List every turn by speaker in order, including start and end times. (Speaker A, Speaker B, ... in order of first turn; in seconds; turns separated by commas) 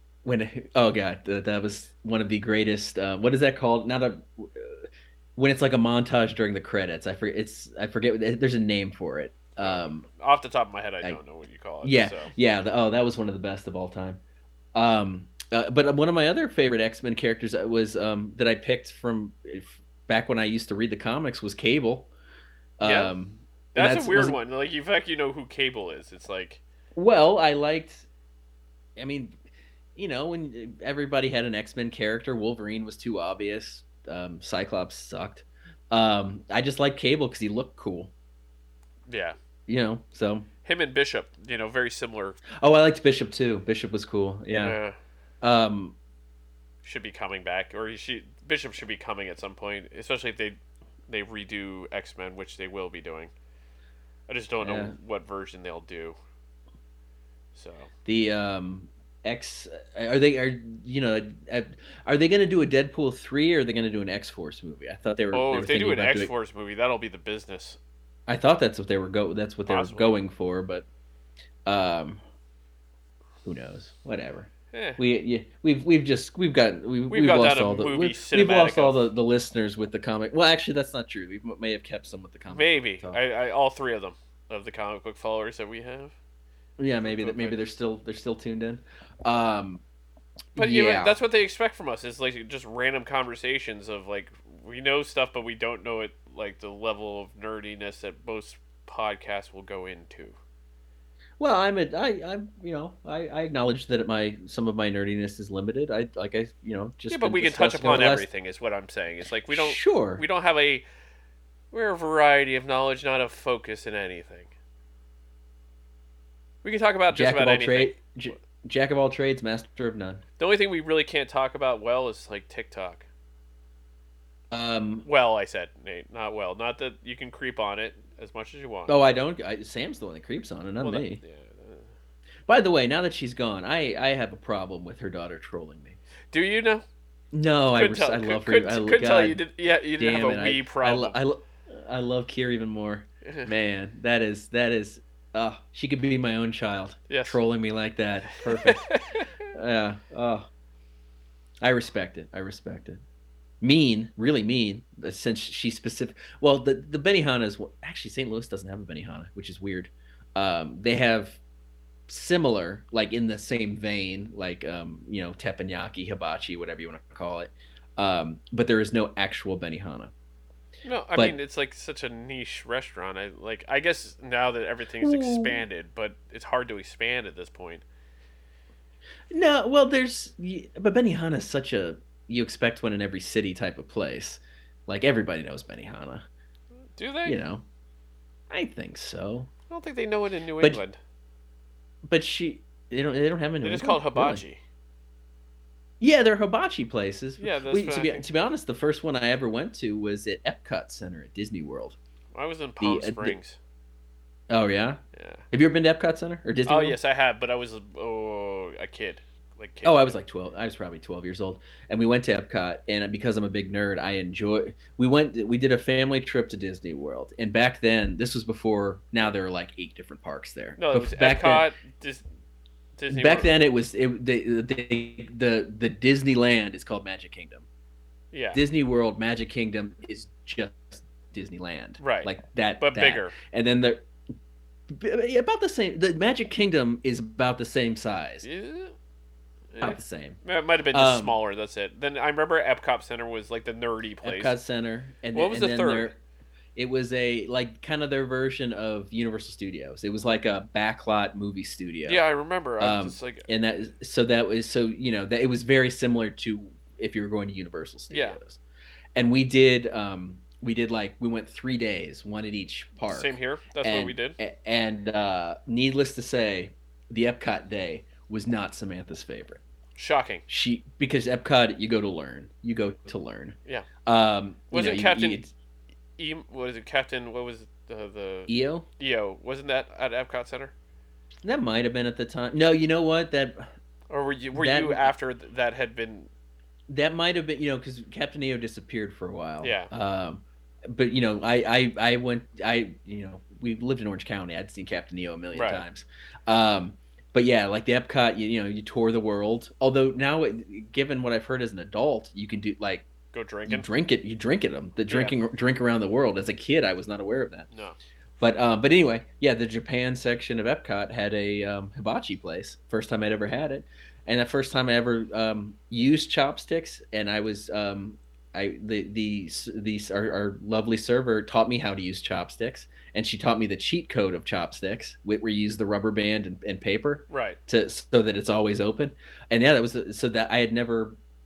Speaker A: 0.2-10.1, Speaker B: 9.6-12.3, Speaker A: 11.8-14.2, Speaker A: 14.7-22.1, Speaker A: 22.8-24.4, Speaker B: 22.8-23.1, Speaker B: 23.7-26.6, Speaker A: 27.0-28.1, Speaker A: 29.0-29.4, Speaker A: 30.0-38.1, Speaker B: 39.1-39.4, Speaker A: 39.7-40.5, Speaker B: 40.6-42.4, Speaker A: 42.5-44.8, Speaker B: 44.5-45.0, Speaker A: 45.4-46.0, Speaker B: 46.8-53.3, Speaker B: 54.3-56.2, Speaker A: 54.6-55.0, Speaker B: 57.5-57.9, Speaker A: 58.1-66.3, Speaker B: 65.3-67.8, Speaker A: 68.3-70.8, Speaker B: 69.7-70.2, Speaker A: 71.7-72.2, Speaker A: 73.5-83.2, Speaker B: 74.7-75.0, Speaker B: 77.1-79.1, Speaker B: 82.5-86.1, Speaker A: 86.8-89.8, Speaker B: 87.0-87.6, Speaker A: 90.5-91.2, Speaker B: 90.6-100.4, Speaker A: 101.4-108.3, Speaker B: 107.1-110.8, Speaker A: 109.5-110.2, Speaker B: 111.7-114.5, Speaker B: 116.6-118.1, Speaker A: 117.1-120.2, Speaker B: 120.4-123.1, Speaker A: 124.5-125.1, Speaker B: 125.0-128.9, Speaker A: 128.9-131.2, Speaker B: 130.8-131.9, Speaker A: 132.5-136.0, Speaker B: 136.3-136.8, Speaker A: 137.3-139.4, Speaker B: 137.8-141.2, Speaker A: 140.0-149.0, Speaker B: 143.2-143.5, Speaker B: 147.1-147.4, Speaker B: 148.5-149.3, Speaker A: 149.5-150.5, Speaker A: 151.6-153.0, Speaker A: 153.6-161.4, Speaker A: 162.1-170.1, Speaker B: 170.8-177.8, Speaker A: 175.0-175.6, Speaker A: 179.3-186.2, Speaker B: 187.0-187.4, Speaker A: 187.2-187.6, Speaker A: 188.5-189.5, Speaker B: 189.7-191.0, Speaker A: 192.1-194.4, Speaker B: 193.6-194.6, Speaker A: 196.0-202.0, Speaker B: 197.4-198.2, Speaker B: 202.3-203.6, Speaker A: 202.8-203.4, Speaker A: 204.5-205.0, Speaker B: 205.1-205.4, Speaker A: 205.5-207.0, Speaker B: 206.7-210.2, Speaker A: 209.8-221.7, Speaker B: 220.8-222.2, Speaker B: 223.0-223.5, Speaker A: 223.1-227.7, Speaker B: 228.3-228.6, Speaker A: 228.5-234.1, Speaker B: 232.0-233.3, Speaker A: 234.9-238.4, Speaker B: 238.4-238.9, Speaker B: 239.7-244.6, Speaker A: 239.8-240.4, Speaker A: 240.9-241.4, Speaker A: 244.2-246.2, Speaker B: 245.3-246.1, Speaker A: 246.8-252.2, Speaker B: 252.1-253.5, Speaker A: 252.8-258.6, Speaker B: 258.1-258.4, Speaker A: 259.1-269.6, Speaker B: 263.1-264.4, Speaker B: 270.0-270.4, Speaker A: 270.5-275.5, Speaker B: 274.7-275.4, Speaker B: 276.2-280.7, Speaker A: 278.5-278.9, Speaker A: 281.4-283.7, Speaker B: 284.1-286.3, Speaker A: 284.6-285.1, Speaker A: 286.9-303.1, Speaker B: 289.6-289.9, Speaker B: 295.5-295.8, Speaker B: 303.3-303.9, Speaker A: 303.7-307.7, Speaker B: 305.1-305.4, Speaker B: 307.7-308.0, Speaker A: 308.4-331.2, Speaker B: 327.3-327.6